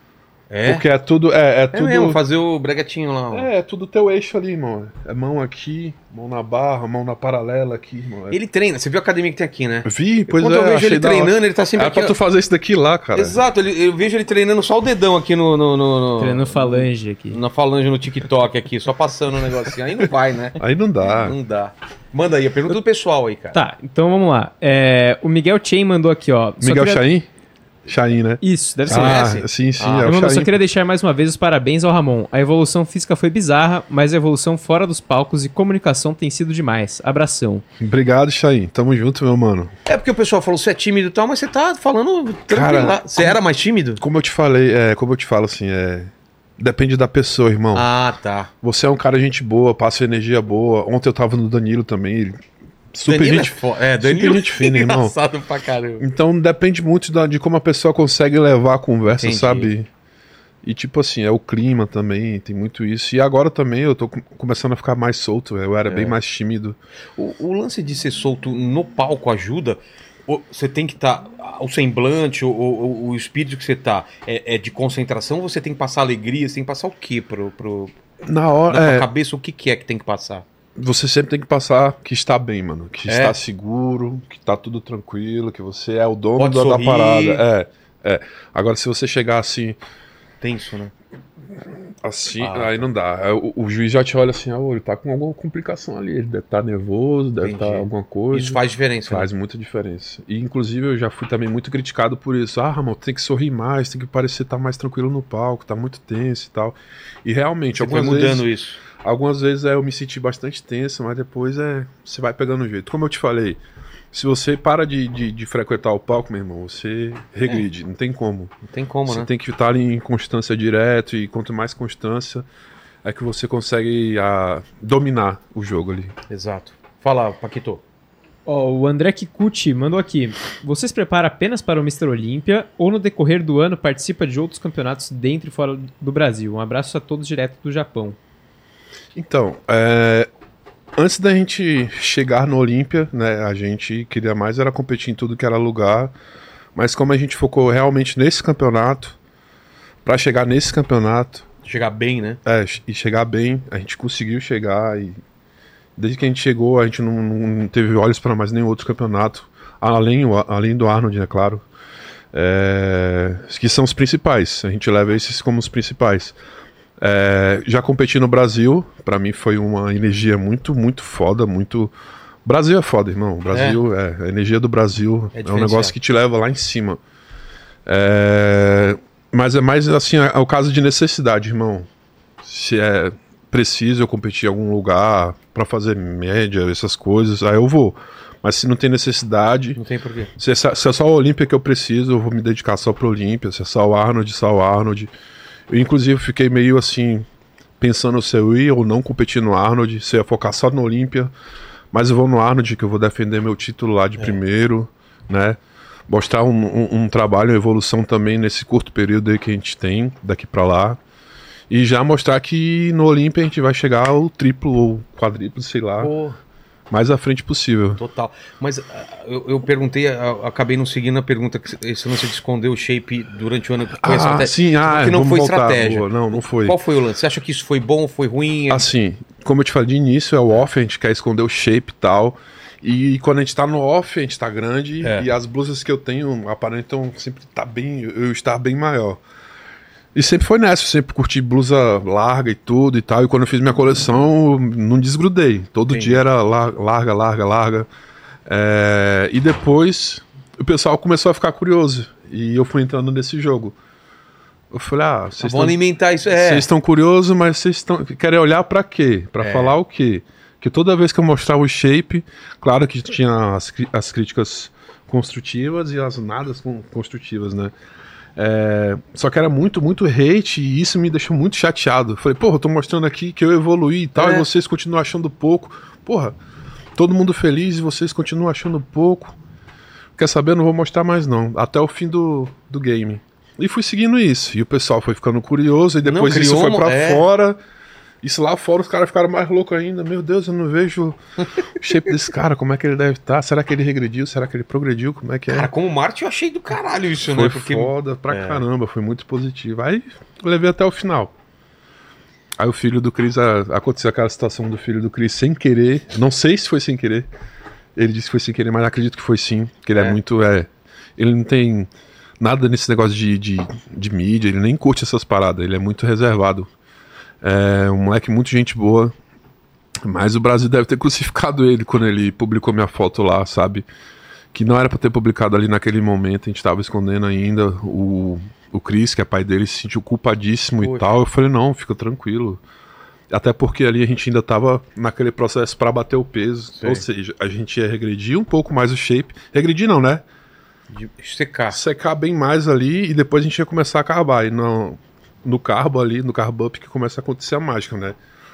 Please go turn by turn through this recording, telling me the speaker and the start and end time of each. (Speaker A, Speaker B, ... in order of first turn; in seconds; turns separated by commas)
Speaker A: 0.5-0.8, Speaker B: 0.6-2.2, Speaker A: 1.7-3.5, Speaker B: 3.3-8.4, Speaker A: 8.3-12.2, Speaker B: 9.8-13.4, Speaker A: 13.1-23.6, Speaker C: 16.2-17.4, Speaker B: 20.6-21.4, Speaker C: 23.5-27.0, Speaker B: 26.6-27.3, Speaker B: 27.9-30.6, Speaker C: 28.4-29.3, Speaker A: 28.9-30.1, Speaker C: 30.0-37.6, Speaker B: 37.8-39.7, Speaker A: 39.9-44.0, Speaker B: 42.5-43.4, Speaker B: 44.0-47.9, Speaker A: 47.7-48.5, Speaker B: 48.6-52.4, Speaker B: 52.9-55.1, Speaker A: 53.0-56.0, Speaker B: 56.0-59.9, Speaker A: 59.2-59.7, Speaker B: 60.6-66.8, Speaker A: 65.9-66.1, Speaker A: 67.2-77.9, Speaker B: 78.2-79.1, Speaker A: 78.7-80.4, Speaker B: 80.8-89.8, Speaker A: 83.1-83.4, Speaker A: 86.4-87.4, Speaker A: 90.4-90.9, Speaker B: 92.0-108.5, Speaker A: 92.4-92.8, Speaker A: 97.4-99.3, Speaker A: 107.8-108.8, Speaker B: 109.0-113.6, Speaker B: 114.1-118.5, Speaker A: 118.7-119.3, Speaker B: 119.1-122.5, Speaker B: 123.0-126.1, Speaker A: 126.3-127.8, Speaker C: 128.4-138.2, Speaker B: 139.1-140.3, Speaker B: 140.9-146.1, Speaker B: 146.7-149.2, Speaker B: 150.0-151.4, Speaker A: 151.6-152.4, Speaker B: 152.4-155.2, Speaker B: 156.0-161.6, Speaker B: 162.3-166.3, Speaker B: 167.0-171.9, Speaker B: 172.4-177.0, Speaker A: 173.5-173.8, Speaker A: 175.3-175.9, Speaker B: 177.8-181.9, Speaker B: 182.4-189.8, Speaker A: 189.8-190.3, Speaker B: 190.3-195.1, Speaker B: 195.7-197.2, Speaker B: 197.8-201.3, Speaker B: 201.9-211.0, Speaker B: 211.7-216.1, Speaker A: 216.0-216.4, Speaker B: 216.9-218.0, Speaker A: 218.0-228.9, Speaker B: 224.0-226.8, Speaker B: 228.7-239.2, Speaker B: 240.1-247.9, Speaker A: 245.9-246.2, Speaker B: 248.4-253.7, Speaker B: 254.7-255.8, Speaker A: 255.4-256.7, Speaker B: 256.3-267.7, Speaker A: 259.4-259.8, Speaker B: 268.4-276.4, Speaker A: 274.1-274.5, Speaker B: 276.9-279.3, Speaker B: 280.1-287.6, Speaker A: 286.0-287.2, Speaker B: 288.2-295.7, Speaker A: 295.5-298.6, Speaker B: 297.2-301.3, Speaker B: 302.6-307.3, Speaker B: 307.9-311.9, Speaker A: 309.9-310.2, Speaker B: 312.4-316.7, Speaker B: 317.4-319.1, Speaker B: 320.0-323.9, Speaker B: 324.5-332.6, Speaker A: 330.8-331.1, Speaker B: 333.3-340.2, Speaker A: 336.8-337.0, Speaker A: 340.9-341.8, Speaker B: 341.7-348.2